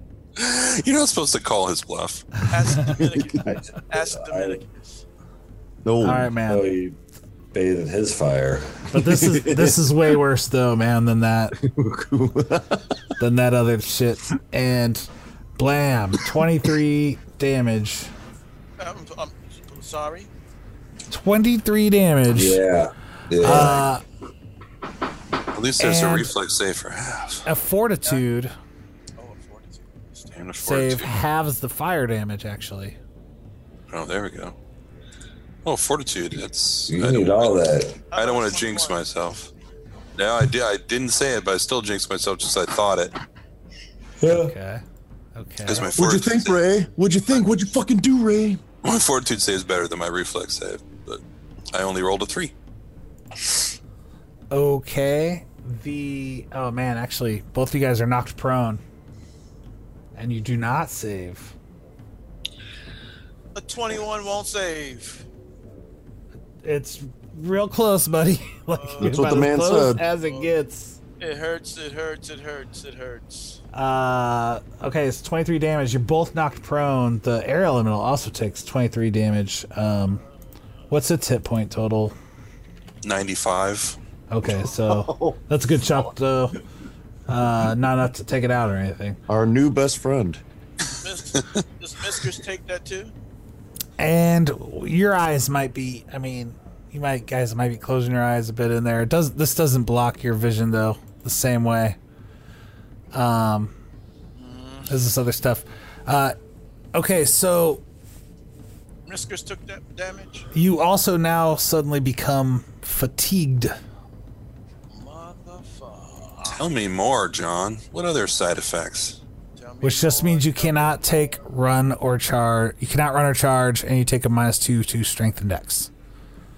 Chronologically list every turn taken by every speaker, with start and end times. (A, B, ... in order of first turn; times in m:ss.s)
0:00.4-0:02.4 A
0:02.5-0:05.0 B
0:03.0-0:03.6 C
0:04.0-0:04.6 D
0:05.8-0:06.3 C
0:06.0-0:06.6 E
0:06.4-0:07.0 D
0:07.5-0:08.8 D
0:08.9-0:11.6 E
0:08.9-0:09.9 C
0:11.6-0:12.9 C
0:13.2-0:18.1 E
0:18.8-0:20.3 B
0:21.1-0:22.6 E
0:22.3-0:23.9 D
0:23.4-0:24.0 E
0:25.5-0:27.4 A
0:25.8-0:26.3 E
0:27.4-0:28.5 E
0:29.2-0:30.5 B
0:30.3-0:31.1 A
0:30.6-0:33.0 E
0:33.9-0:34.5 A
0:35.6-0:39.5 A
0:36.9-0:38.0 D
0:38.1-0:39.1 B
0:40.1-0:43.2 A
0:44.2-0:44.5 D
0:44.3-0:44.8 E
0:45.4-0:46.0 E
0:45.6-0:46.6 A
0:46.0-0:48.6 C
0:48.8-0:51.2 A
0:51.7-0:52.5 A
0:54.5-0:58.8 E
1:00.2-1:01.5 E
1:03.5-1:05.2 B
1:06.6-1:11.0 E
1:08.7-1:09.4 B
1:09.0-1:10.0 C
1:10.1-1:10.5 B
1:11.2-1:13.6 B
1:13.7-1:20.2 E
1:20.9-1:22.1 E
1:23.0-1:24.0 A
1:24.3-1:26.6 E
1:24.5-1:25.4 C
1:27.3-1:29.2 E
1:29.3-1:30.4 C
1:31.0-1:33.1 B
1:31.4-1:31.6 A
1:34.0-1:42.0 E
1:43.1-1:43.7 E
1:44.4-1:45.0 B
1:44.9-1:46.4 E
1:46.9-1:47.8 E
1:49.1-1:50.5 B
1:50.5-1:53.7 E
1:54.9-1:56.6 B
1:56.6-1:59.2 A
1:59.5-2:01.0 B
1:59.8-2:05.9 E